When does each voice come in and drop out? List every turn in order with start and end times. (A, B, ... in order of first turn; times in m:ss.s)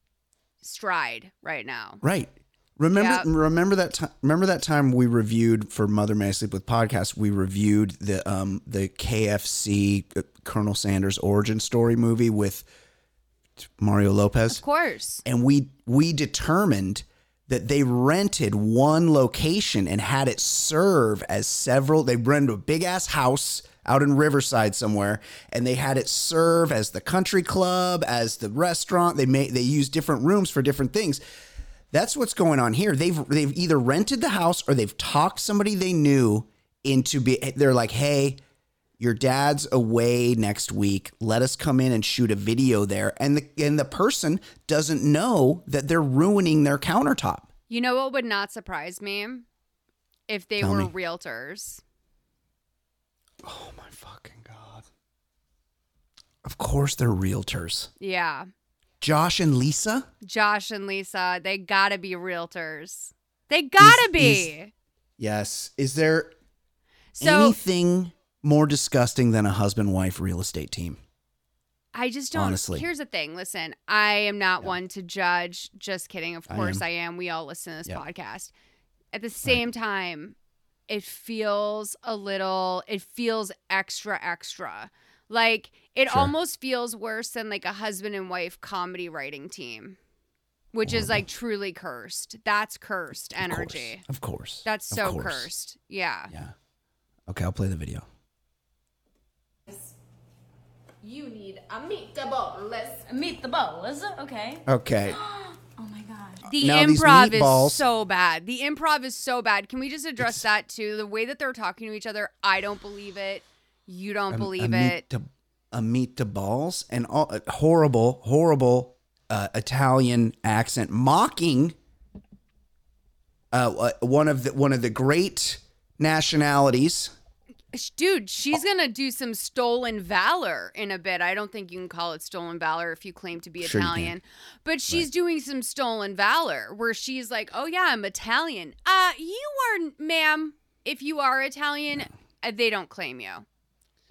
0:00.6-0:02.0 A
0:02.0-0:12.7 B
0:02.9-0:03.3 A
0:13.7-0:14.6 B
0:14.5-0:15.2 A
0:15.2-0:31.2 B
0:31.9-0:38.4 B
0:39.0-0:47.5 B
0:47.7-0:49.5 A
0:50.3-0:51.8 A
0:50.6-0:50.9 B
0:53.4-0:54.9 B
0:56.4-0:57.9 B
0:58.0-0:58.5 A
0:59.0-1:00.1 B
1:00.2-1:04.7 A
1:03.8-1:04.5 B
1:05.2-1:06.3 B
1:07.2-1:07.6 A
1:07.2-1:11.0 B
1:11.9-1:18.5 A
1:12.3-1:12.9 B
1:16.5-1:16.8 B
1:19.1-1:20.4 A
1:20.9-1:30.0 A
1:26.1-1:26.3 B
1:30.7-1:34.0 A
1:30.8-1:31.2 B
1:33.4-1:35.5 B
1:34.6-1:36.3 A
1:36.3-1:36.6 B
1:37.3-1:38.1 B
1:41.0-1:44.6 C
1:44.7-1:45.2 B
1:45.2-1:46.4 C
1:46.5-1:47.8 B
1:46.5-1:55.0 A
1:50.2-1:50.4 B
1:54.3-2:01.8 B
2:03.5-2:07.1 B
2:07.7-2:23.5 A
2:13.6-2:14.2 B